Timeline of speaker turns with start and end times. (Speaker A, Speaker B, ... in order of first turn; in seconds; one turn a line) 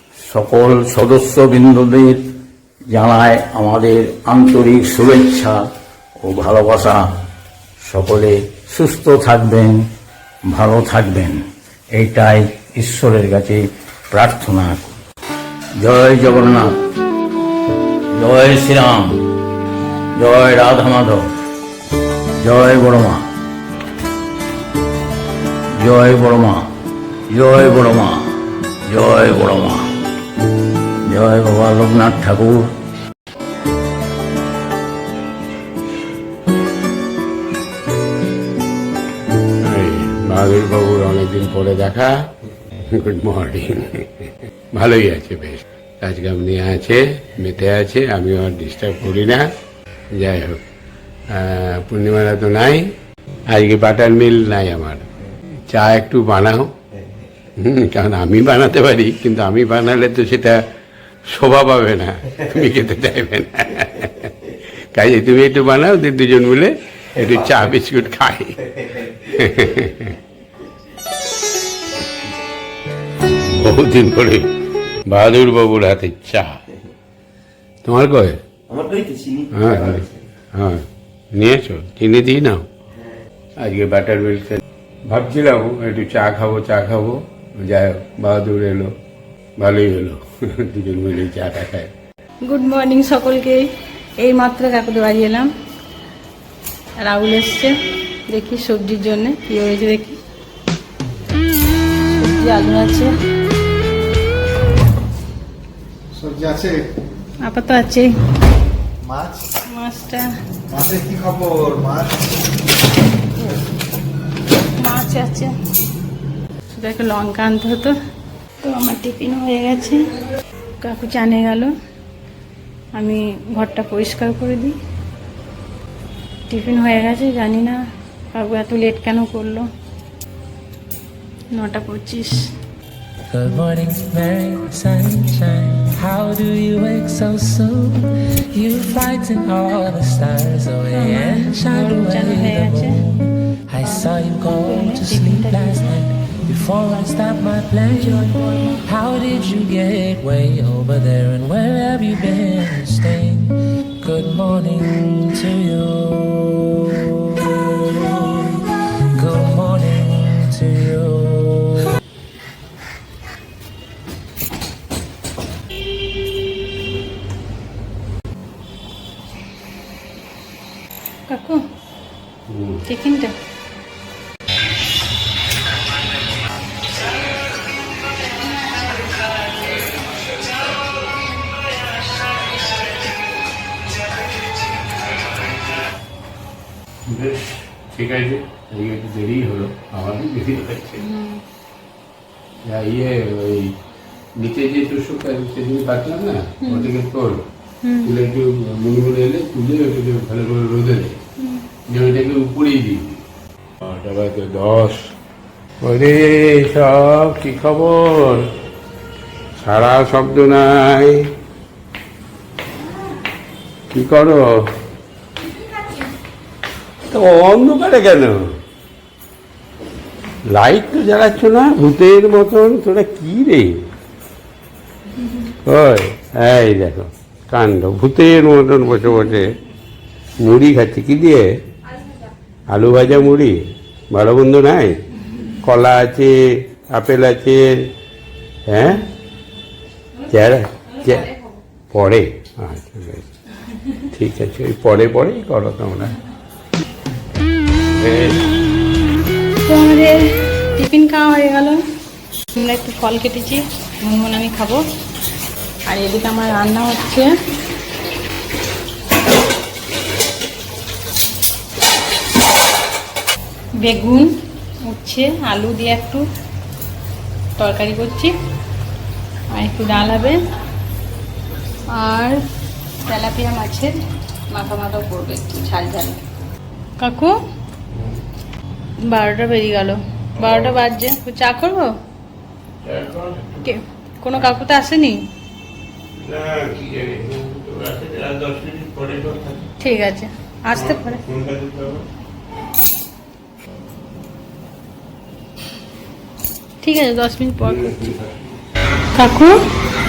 Speaker A: 0.3-2.2
Speaker A: 2.9-5.5
Speaker A: 6.2-7.0
Speaker A: 7.9-9.8
Speaker A: 10.5-11.4
Speaker A: 11.9-14.9
Speaker A: 15.8-16.7
Speaker A: 18.1-19.2
Speaker A: 20.2-21.2
Speaker A: 22.4-23.2
Speaker A: 25.8-26.6
Speaker A: 27.3-28.2
Speaker A: 28.9-29.8
Speaker A: 31.1-32.6
Speaker B: 39.6-42.1
Speaker B: 42.9-44.1
Speaker B: 44.7-49.4
Speaker B: 50.1-50.6
Speaker B: 51.3-52.8
Speaker B: 53.5-55.0
Speaker B: 55.7-56.7
Speaker B: 57.6-60.6
Speaker B: 61.3-68.6
Speaker B: 69.1-70.2
Speaker B: 73.3-74.5
Speaker B: 75.1-76.5
Speaker B: 77.8-78.4
Speaker B: 79.5-82.6
Speaker B: 83.6-88.9
Speaker B: 89.6-91.9
Speaker C: 92.4-95.5
Speaker C: 97.0-97.7
Speaker C: 98.3-100.2
Speaker C: 102.1-103.1
Speaker D: 106.2-106.8
Speaker C: 107.4-108.1
Speaker D: 109.0-109.4
Speaker C: 109.7-110.3
Speaker D: 110.7-112.1
Speaker C: 114.8-115.5
Speaker C: 116.7-117.9
Speaker C: 118.6-120.1
Speaker C: 120.8-121.7
Speaker C: 122.9-124.7
Speaker C: 126.5-127.8
Speaker C: 128.3-129.7
Speaker C: 131.5-132.4
Speaker E: 133.3-161.9
Speaker C: 140.9-143.0
Speaker C: 144.6-145.9
Speaker C: 171.3-171.6
Speaker B: 172.5-172.8
Speaker C: 172.9-173.3
Speaker B: 187.1-191.0
Speaker C: 191.0-191.4
Speaker B: 192.7-193.7
Speaker B: 194.4-197.4
Speaker C: 196.6-196.9
Speaker C: 197.8-198.1
Speaker B: 198.0-201.2
Speaker B: 201.9-203.2
Speaker B: 203.8-205.0
Speaker B: 205.8-208.5
Speaker B: 209.6-211.2
Speaker B: 213.9-214.7
Speaker B: 217.1-218.5
Speaker B: 220.4-223.9
Speaker B: 225.6-229.5
Speaker B: 230.4-231.4
Speaker B: 232.7-235.0
Speaker B: 235.6-237.9
Speaker B: 238.7-239.0
Speaker B: 240.3-241.3
Speaker B: 241.9-243.2
Speaker B: 244.1-246.2
Speaker B: 248.0-248.4
Speaker C: 249.6-250.2
Speaker C: 250.7-251.8
Speaker C: 252.5-254.8
Speaker C: 255.9-257.3
Speaker C: 263.8-264.3
Speaker C: 264.8-266.2
Speaker C: 267.6-268.3
Speaker C: 269.5-270.4
Speaker C: 271.9-272.4
Speaker C: 273.0-273.9
Speaker C: 274.5-276.2
Speaker C: 277.0-277.3
Speaker B: 277.9-278.2
Speaker C: 279.1-281.9
Speaker B: 280.4-280.8
Speaker B: 282.8-283.7
Speaker C: 283.6-285.2
Speaker B: 286.2-289.7
Speaker C: 289.8-291.2
Speaker B: 290.7-292.0
Speaker C: 296.8-298.0
Speaker B: 297.6-298.3
Speaker C: 299.1-299.6